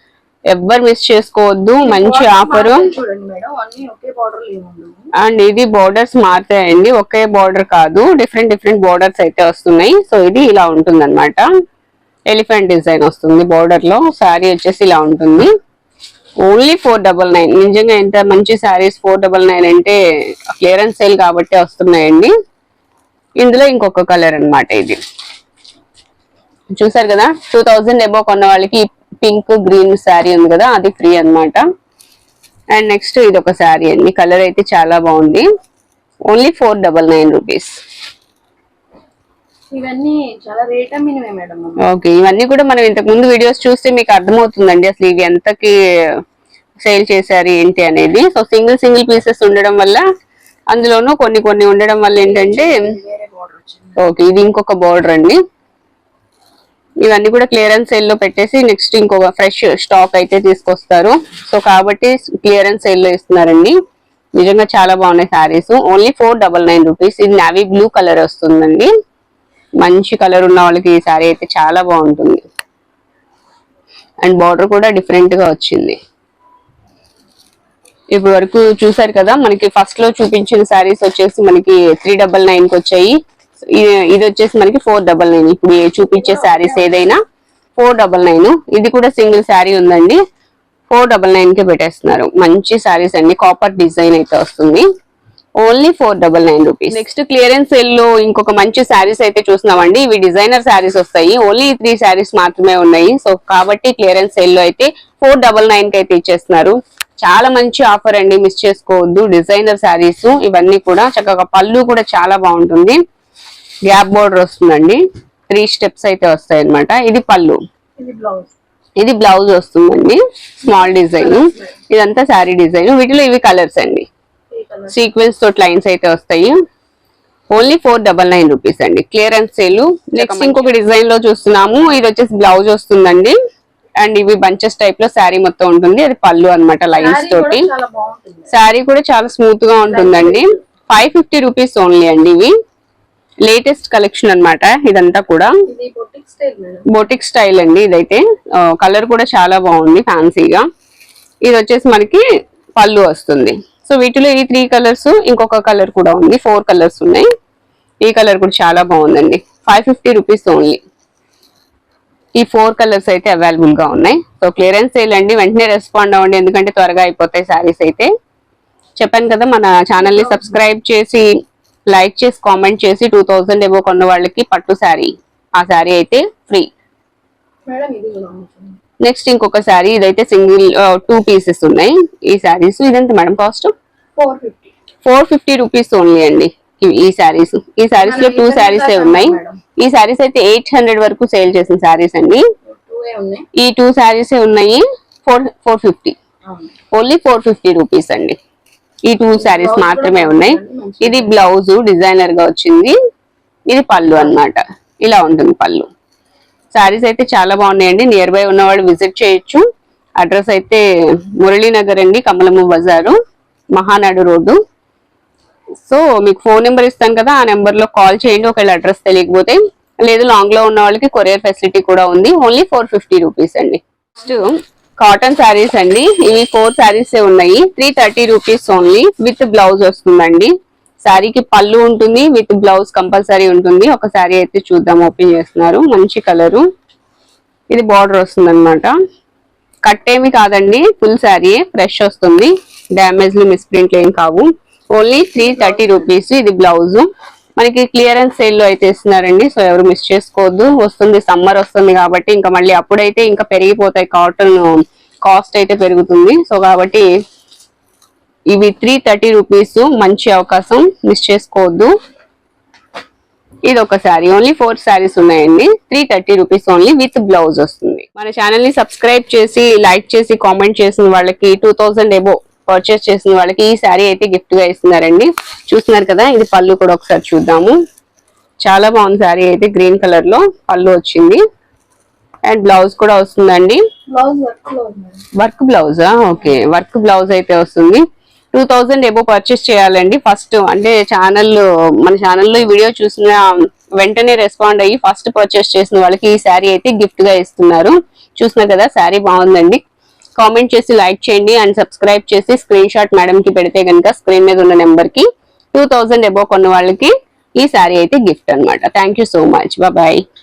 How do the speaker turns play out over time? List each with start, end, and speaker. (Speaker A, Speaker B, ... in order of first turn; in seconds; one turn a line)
Speaker A: 0.5-2.9
Speaker B: 1.8-5.0
Speaker A: 5.2-11.4
Speaker A: 12.3-15.5
Speaker A: 16.4-20.0
Speaker A: 20.5-22.3
Speaker A: 23.4-25.0
Speaker A: 26.8-31.6
Speaker A: 32.7-35.4
Speaker A: 36.3-37.7
Speaker B: 39.7-41.8
Speaker A: 41.8-45.7
Speaker A: 46.8-50.0
Speaker A: 50.7-52.7
Speaker B: 52.1-54.0
Speaker A: 54.0-55.4
Speaker A: 57.0-63.7
Speaker A: 64.4-68.9
Speaker A: 69.8-72.4
Speaker A: 74.2-76.0
Speaker A: 78.1-87.2
Speaker B: 86.0-87.1
Speaker A: 87.8-90.2
Speaker A: 90.9-94.8
Speaker A: 95.6-113.0
Speaker A: 113.9-115.0
Speaker A: 115.5-117.6
Speaker B: 118.0-118.5
Speaker A: 119.0-124.0
Speaker B: 120.7-121.7
Speaker B: 124.5-125.1
Speaker A: 124.9-126.5
Speaker A: 127.5-133.3
Speaker B: 130.2-130.7
Speaker A: 134.0-137.7
Speaker B: 137.0-138.5
Speaker A: 138.5-142.5
Speaker B: 139.8-140.4
Speaker A: 143.4-145.5
Speaker B: 145.7-146.8
Speaker A: 146.9-150.6
Speaker A: 151.4-152.2
Speaker A: 152.8-157.2
Speaker A: 158.0-160.8
Speaker A: 162.4-168.1
Speaker A: 169.0-171.2
Speaker B: 170.0-170.6
Speaker A: 171.9-176.7
Speaker B: 177.7-178.8
Speaker A: 179.0-183.7
Speaker B: 184.2-184.7
Speaker A: 185.0-192.4
Speaker B: 188.0-189.6
Speaker B: 192.7-193.4
Speaker A: 193.6-196.1
Speaker B: 196.5-196.7
Speaker A: 196.9-198.4
Speaker A: 199.1-202.9
Speaker B: 199.4-201.3
Speaker A: 203.7-205.9
Speaker A: 206.7-209.6
Speaker A: 210.2-210.8
Speaker A: 211.4-213.2
Speaker A: 213.7-214.6
Speaker A: 215.8-230.5
Speaker A: 231.0-236.6
Speaker A: 237.7-238.9
Speaker A: 239.8-247.1
Speaker B: 245.5-246.1
Speaker A: 247.6-254.7
Speaker A: 255.2-257.0
Speaker A: 258.5-261.9
Speaker A: 263.7-277.7
Speaker A: 278.6-281.4
Speaker A: 282.5-283.8
Speaker B: 284.1-285.2
Speaker A: 285.4-299.8
Speaker A: 300.4-310.2